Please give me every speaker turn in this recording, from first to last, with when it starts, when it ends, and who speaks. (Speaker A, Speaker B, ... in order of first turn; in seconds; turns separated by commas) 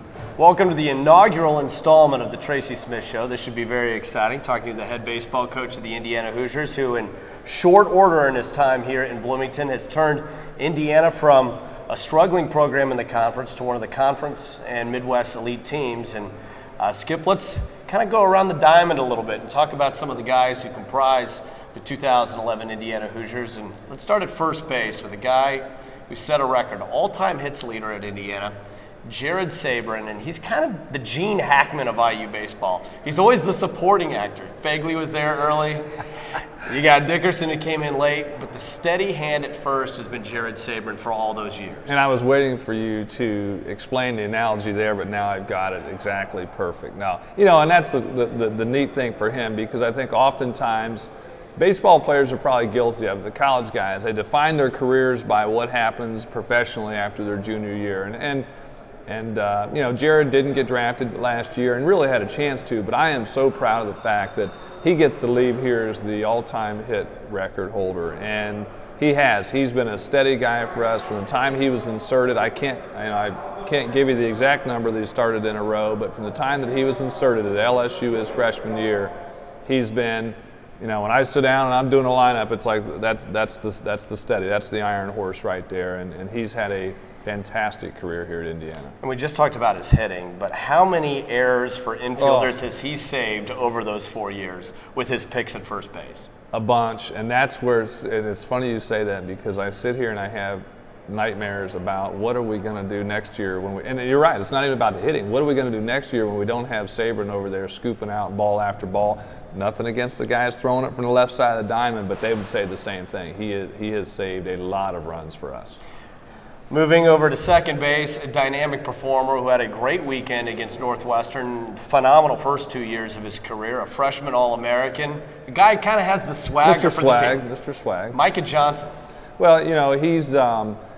Speaker A: 0.4-28.5, Speaker A: 29.1-35.9, Speaker A: 36.6-42.0, Speaker B: 41.9-58.4, Speaker B: 59.1-79.1, Speaker B: 79.6-88.9, Speaker A: 89.0-96.3, Speaker B: 92.2-92.5, Speaker B: 96.5-115.8, Speaker A: 116.7-127.4, Speaker B: 126.6-128.2, Speaker A: 128.1-128.9, Speaker B: 129.4-130.8